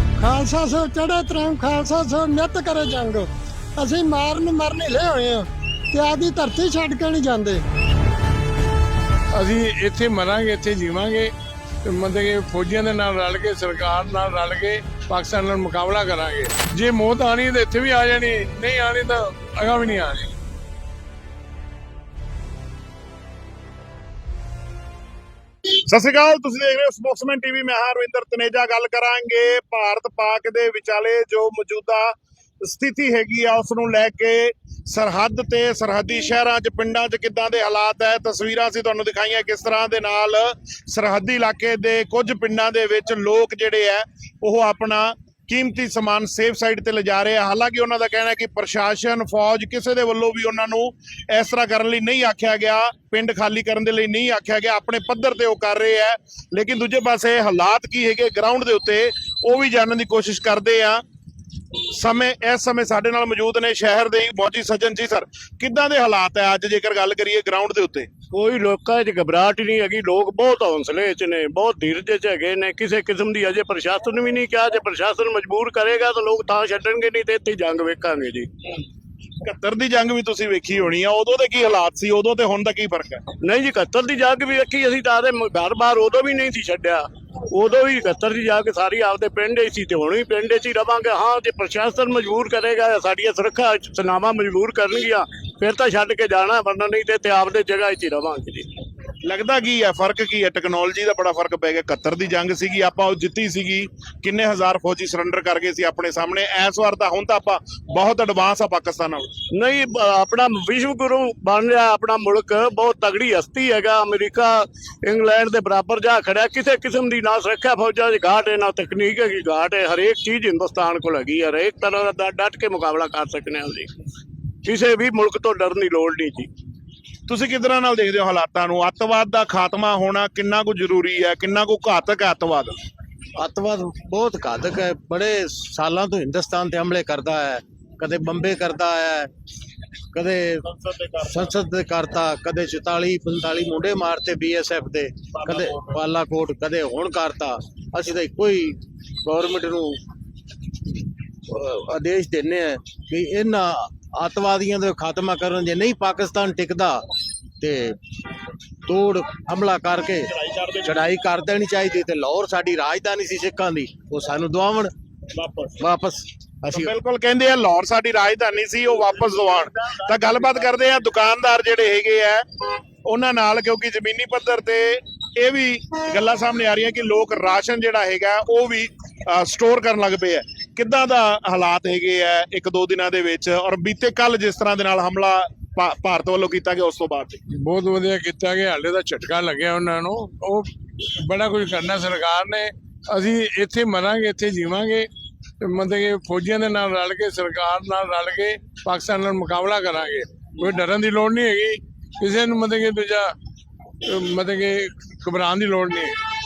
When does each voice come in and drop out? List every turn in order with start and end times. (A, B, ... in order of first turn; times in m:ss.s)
0:00.2-0:07.6 A
0:09.4-0:11.3 B
0:11.8-0:20.3 B
0:25.9-1:01.0 C
1:01.9-1:08.1 C
1:08.3-1:18.5 D
1:19.4-1:23.2 C
1:23.4-1:38.7 D
1:39.2-1:49.3 C
1:49.5-2:03.9 D
2:04.6-2:06.5 D
2:07.3-2:12.8 C
2:13.4-2:19.3 E
2:20.1-2:20.6 E
2:21.2-2:30.0 E
2:31.5-2:37.0 E
2:37.6-2:38.0 E
2:38.9-2:44.9 E
2:45.4-2:45.7 C
2:45.8-2:46.9 E
2:46.7-2:52.4 C
2:53.0-3:07.4 C
3:07.6-3:10.7 B
3:11.2-3:15.1 B
3:15.6-3:23.3 B
3:24.0-3:26.2 B